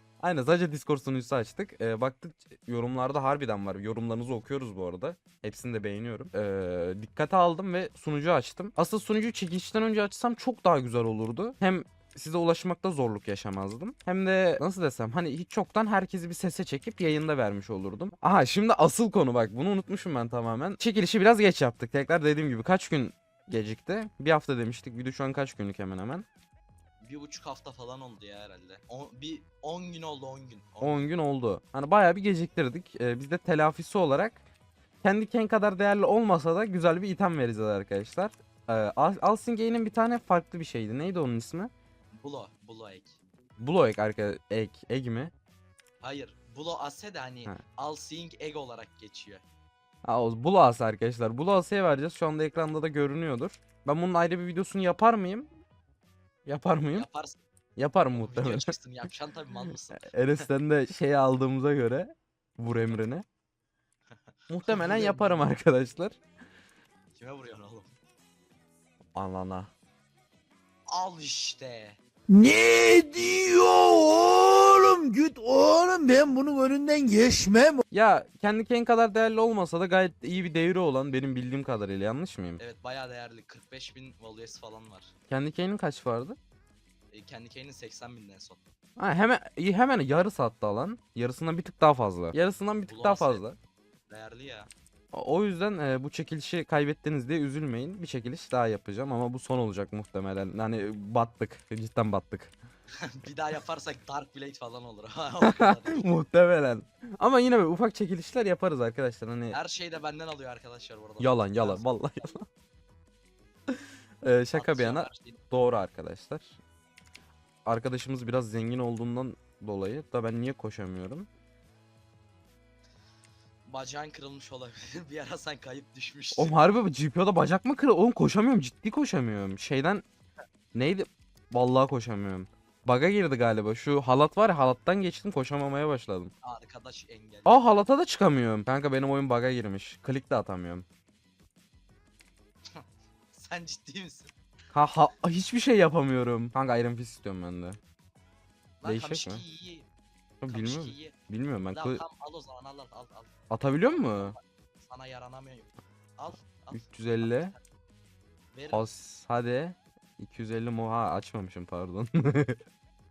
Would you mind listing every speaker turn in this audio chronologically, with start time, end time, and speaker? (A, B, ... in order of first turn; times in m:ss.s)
0:00.2-0:26.2 A
0:27.0-0:31.1 B
0:30.8-0:34.4 A
0:35.0-0:41.7 A
0:42.2-0:43.2 B
0:43.6-0:45.3 A
0:46.0-0:49.4 B
0:50.0-0:55.5 A
0:56.4-0:57.1 A
0:56.9-0:57.4 B
0:57.8-0:58.7 A
0:58.1-1:00.5 B
1:00.0-1:03.2 A
1:04.1-1:05.5 B
1:04.5-1:06.2 A
1:07.1-1:07.9 B
1:09.1-1:09.7 A
1:10.9-1:12.0 B
1:12.3-1:17.8 C
1:17.9-1:22.6 A
1:22.6-1:25.1 B
1:25.3-1:26.4 A
1:27.1-1:28.6 B
1:29.0-1:33.6 A
1:32.9-1:33.5 B
1:34.1-1:34.7 B
1:35.1-1:42.5 A
1:42.9-1:46.2 B
1:45.4-1:49.6 A
1:49.5-1:52.3 B
1:51.2-1:52.4 A
1:53.7-1:56.5 A
1:54.5-1:55.4 B
1:57.6-2:01.3 A
2:03.6-2:06.6 B
2:06.4-2:10.0 A
2:10.7-2:16.3 A
2:16.4-2:17.6 B
2:17.4-2:20.8 A
2:22.6-2:24.3 B
2:24.7-2:27.8 A
2:28.8-2:29.9 B
2:28.8-2:29.4 A
2:30.4-2:32.0 A
2:30.5-2:31.2 B
2:31.7-2:37.6 B
2:33.5-2:34.4 A
2:36.7-2:37.5 A
2:38.5-2:38.9 B
2:38.7-2:42.6 A